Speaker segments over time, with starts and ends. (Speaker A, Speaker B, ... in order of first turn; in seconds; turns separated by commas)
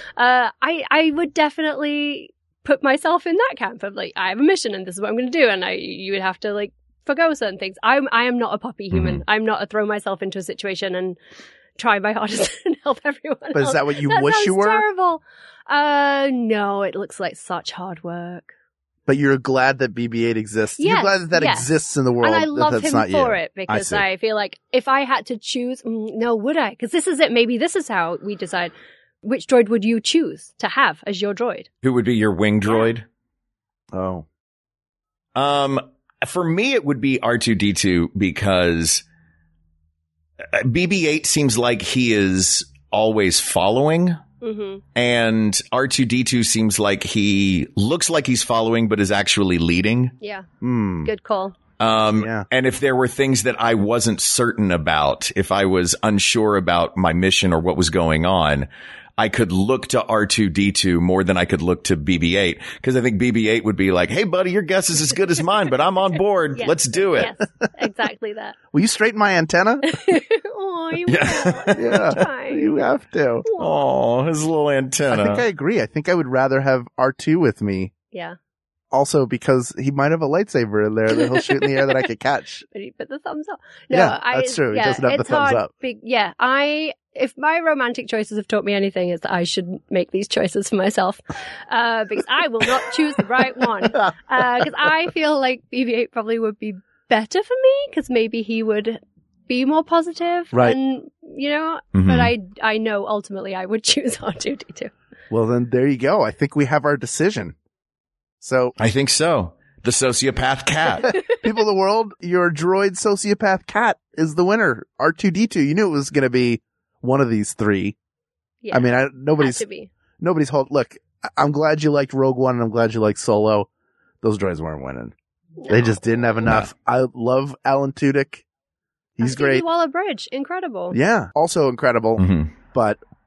Speaker A: 0.2-11.2, Speaker B: 8.9-9.2, Speaker A: 11.8-18.5, Speaker C: 13.5-14.8, Speaker C: 19.1-24.0, Speaker A: 20.8-21.7, Speaker A: 22.2-31.7, Speaker B: 31.8-33.0, Speaker C: 33.9-34.2, Speaker B: 35.3-39.0, Speaker B: 40.4-44.2, Speaker A: 44.4-44.8, Speaker B: 44.9-50.1, Speaker A: 50.2-50.5, Speaker C: 50.6-51.1, Speaker A: 51.0-51.5, Speaker B: 51.8-67.3, Speaker C: 52.2-52.5, Speaker A: 66.5-68.6, Speaker C: 68.7-69.9, Speaker A: 69.8-72.7, Speaker B: 71.1-72.0, Speaker C: 71.7-73.4, Speaker A: 73.5-73.8, Speaker B: 73.6-75.4, Speaker C: 75.1-77.9, Speaker C: 78.9-82.6, Speaker A: 81.3-81.9, Speaker A: 82.7-104.9, Speaker C: 83.9-85.7, Speaker B: 101.9-102.3, Speaker C: 105.3-107.5, Speaker C: 108.4-108.8, Speaker B: 108.8-111.1, Speaker C: 111.4-117.9, Speaker A: 118.6-119.9, Speaker C: 118.7-119.6, Speaker C: 120.2-123.7, Speaker C: 124.2-125.1, Speaker A: 125.6-126.2, Speaker C: 125.7-128.4, Speaker C: 129.2-129.6, Speaker A: 129.2-131.0, Speaker C: 130.9-133.0, Speaker B: 132.2-132.5